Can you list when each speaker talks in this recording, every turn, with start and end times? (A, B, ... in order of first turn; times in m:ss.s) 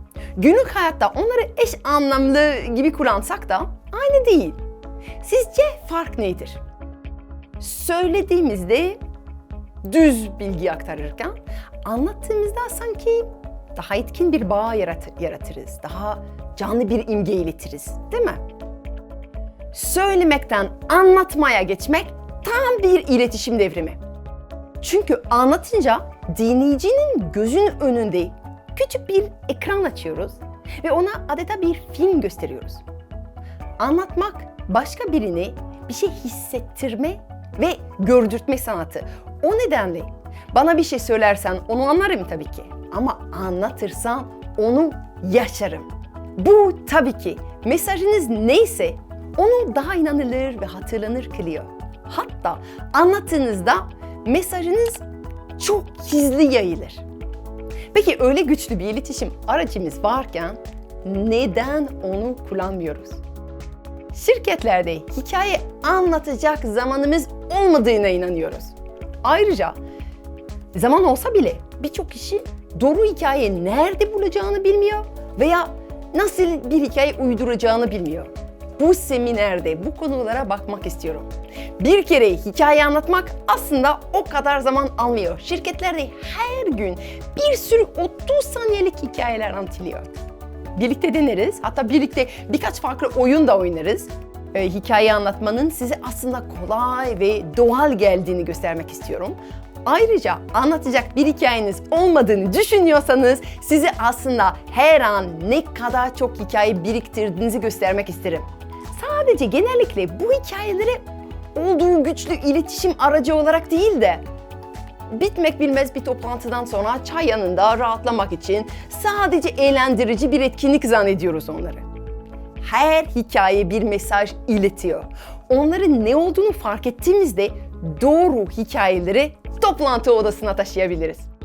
0:00.4-0:04.6 A
0:05.2-0:06.6 A
0:07.6-0:09.0 A
0:09.8-0:18.4 A
0:19.7-0:24.0 A
0:24.8-0:32.8 A
0:33.8-0:55.0 A
0:55.6-0:57.0 A
0:57.9-1:03.2 A
1:04.1-1:09.8 A
1:10.7-1:30.1 A
1:30.7-1:54.2 A
1:55.1-2:01.8 A
2:02.6-2:11.3 A